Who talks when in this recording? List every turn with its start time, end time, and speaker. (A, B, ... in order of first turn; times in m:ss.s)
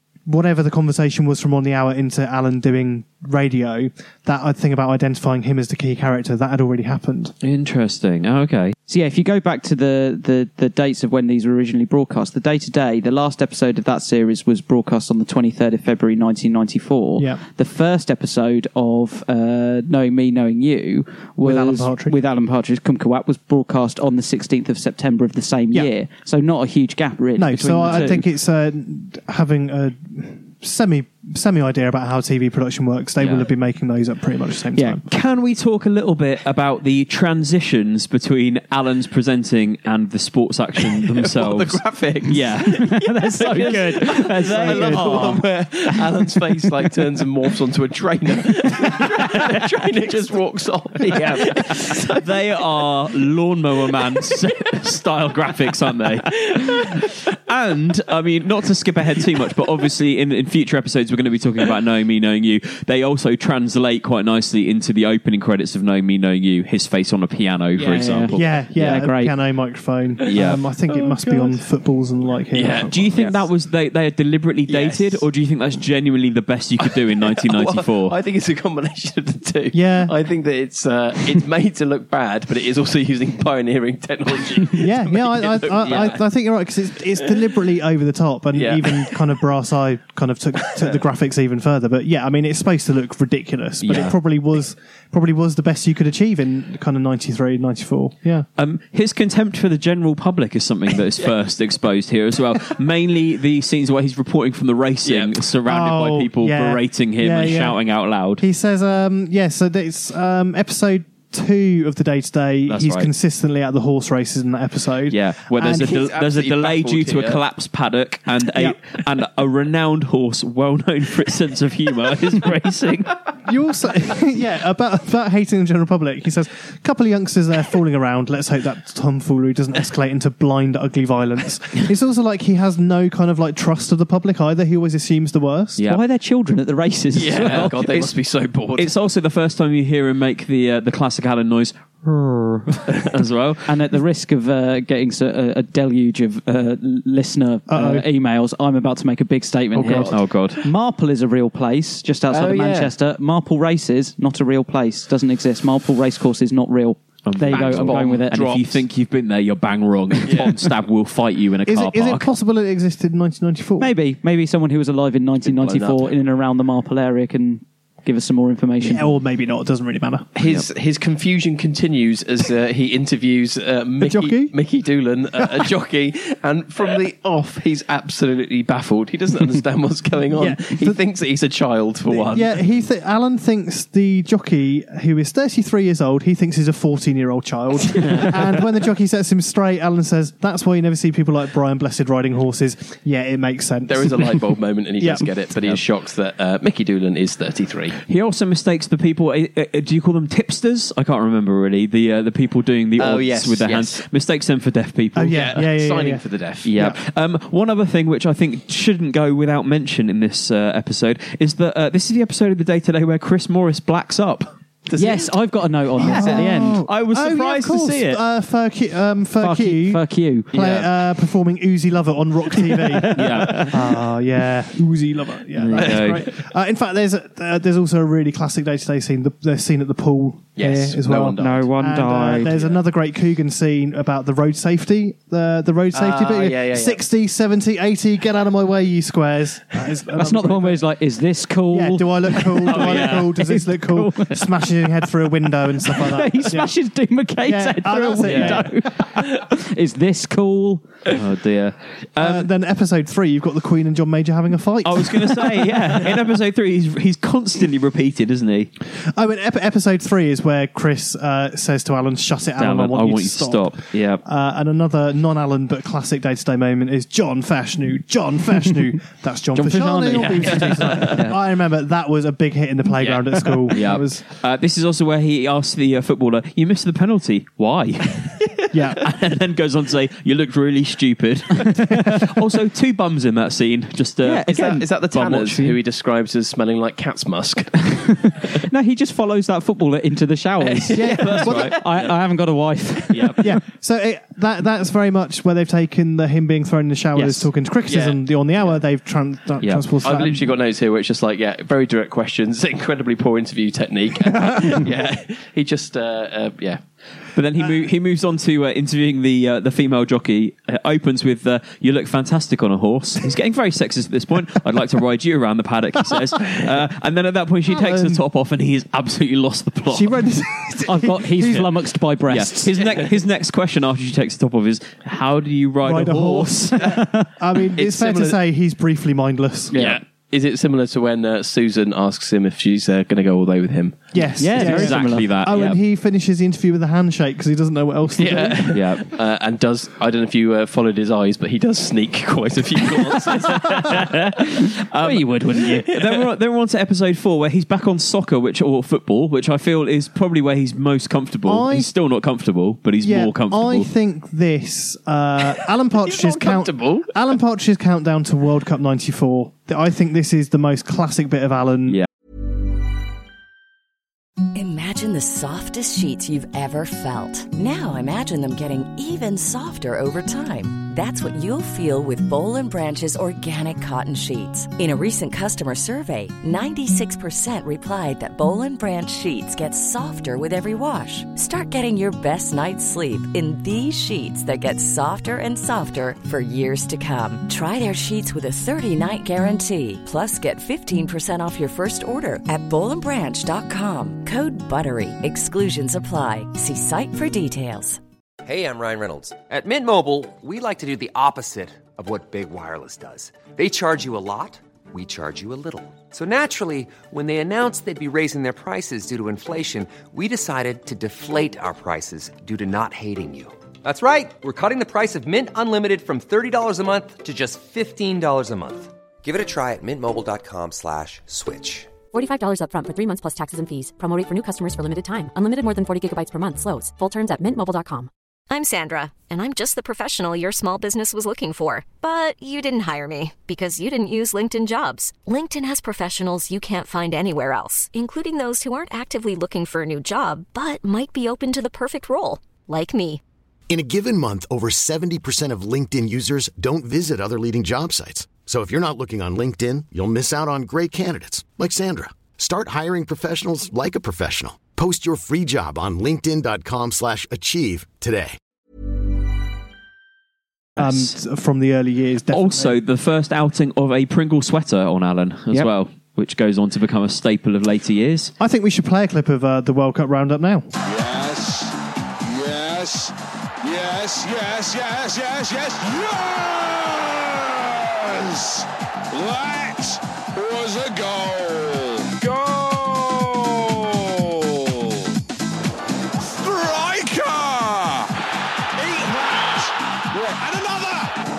0:00.3-0:07.3 A
0:07.4-0:08.8 B
0:08.9-0:28.2 C
0:21.4-0:22.2 A
0:27.4-0:35.0 A
0:33.2-0:33.5 B
0:35.0-0:42.9 B
0:40.8-0:52.3 D
0:42.8-0:46.6 C
0:43.4-0:45.4 B
0:48.8-0:49.5 C
0:51.1-1:09.0 B
0:56.7-0:56.9 D
1:07.8-1:09.3 C
1:07.8-1:08.1 D
1:08.3-1:13.1 A
1:10.2-1:11.6 D
1:10.3-1:10.6 B
1:12.5-1:13.4 D
1:12.9-1:18.2 B
1:14.7-1:15.2 D
1:16.8-1:26.2 D
1:19.7-1:20.1 A
1:24.8-1:38.5 A
1:28.5-1:29.2 D
1:33.8-1:34.2 B
1:38.6-1:48.4 B
1:45.0-1:45.4 D
1:45.6-1:47.8 A
1:48.4-1:55.9 A
1:52.7-1:53.1 B
1:55.1-2:03.2 B
1:55.8-1:57.4 D
2:03.5-2:15.9 A
2:15.8-2:16.2 B
2:15.9-2:18.0 C
2:17.1-2:18.1 B
2:17.1-2:18.9 D
2:18.8-2:23.7 B
2:23.7-2:38.6 C
2:27.7-2:28.0 A
2:29.8-2:30.1 D
2:29.8-2:30.6 B
2:32.3-2:32.9 D
2:37.2-2:42.3 B
2:37.4-2:38.8 D
2:40.2-2:40.6 D
2:41.7-2:43.9 A
2:43.8-2:49.1 C
2:45.4-2:46.1 D
2:48.8-2:50.3 A
2:50.4-3:02.6 D
2:54.0-2:54.6 A
2:55.4-2:55.7 A
3:00.4-3:01.0 A
3:02.1-3:14.4 A
3:08.0-3:08.3 D
3:13.9-3:18.0 D
3:15.0-3:15.3 A
3:18.1-3:25.8 B
3:23.0-3:24.0 D
3:25.2-3:26.2 A
3:25.3-3:26.7 D
3:26.6-3:34.5 B
3:34.9-3:35.4 D
3:34.9-3:36.8 C
3:36.0-3:36.4 D
3:36.0-4:00.8 A
3:36.0-3:38.2 B
3:39.4-3:40.5 C
3:40.6-3:40.9 B
3:42.8-3:43.7 C
3:43.1-3:43.7 B
3:45.6-3:46.2 B
3:45.8-3:46.0 D
3:50.6-3:51.7 D
3:51.4-3:52.5 C
3:52.4-3:52.8 D
3:55.9-3:57.0 D
4:00.1-4:04.7 C
4:01.7-4:06.8 A
4:02.7-4:03.3 B
4:05.8-4:11.0 C
4:07.4-4:08.8 A
4:08.2-4:08.6 B
4:11.1-4:12.5 B
4:12.2-4:15.8 A
4:14.8-4:18.7 B
4:19.2-4:34.2 A
4:22.6-4:24.2 B
4:29.6-4:31.1 C
4:30.1-4:31.2 D
4:30.9-4:31.4 B
4:33.0-4:44.5 B
4:38.7-4:39.1 A
4:44.2-4:45.8 C
4:44.5-4:48.0 D
4:45.1-4:45.5 B
4:48.6-4:53.5 C
4:50.6-4:51.8 D
4:50.9-4:51.7 A
4:51.1-4:52.1 B
4:53.1-4:53.4 B
4:53.4-5:00.4 A
4:57.2-4:57.5 C
4:57.9-4:58.2 D
5:00.0-5:06.8 D
5:07.4-5:20.2 B
5:17.7-5:18.2 A
5:19.9-5:21.7 A
5:20.8-5:22.7 C
5:22.3-5:26.8 B
5:25.8-5:29.8 A
5:26.9-5:27.3 C
5:27.7-5:28.4 D
5:29.7-5:34.1 D
5:34.1-5:38.8 A
5:34.4-5:35.4 C
5:34.5-5:35.8 B
5:38.2-5:44.0 D
5:38.7-5:39.1 B
5:43.5-5:53.9 B
5:45.0-5:45.9 C
5:51.5-5:51.9 A
5:53.0-6:02.0 A
5:56.0-5:57.1 D
6:04.5-6:38.0 E
6:38.4-7:02.0 F
7:02.1-7:08.1 G
7:08.5-7:23.2 H
7:23.7-7:38.4 I
7:40.8-7:42.8 A
7:40.8-7:41.2 B
7:42.3-7:48.3 B
7:48.4-7:50.7 A
7:50.8-8:05.1 J
8:06.2-8:08.1 J
8:08.8-8:11.1 J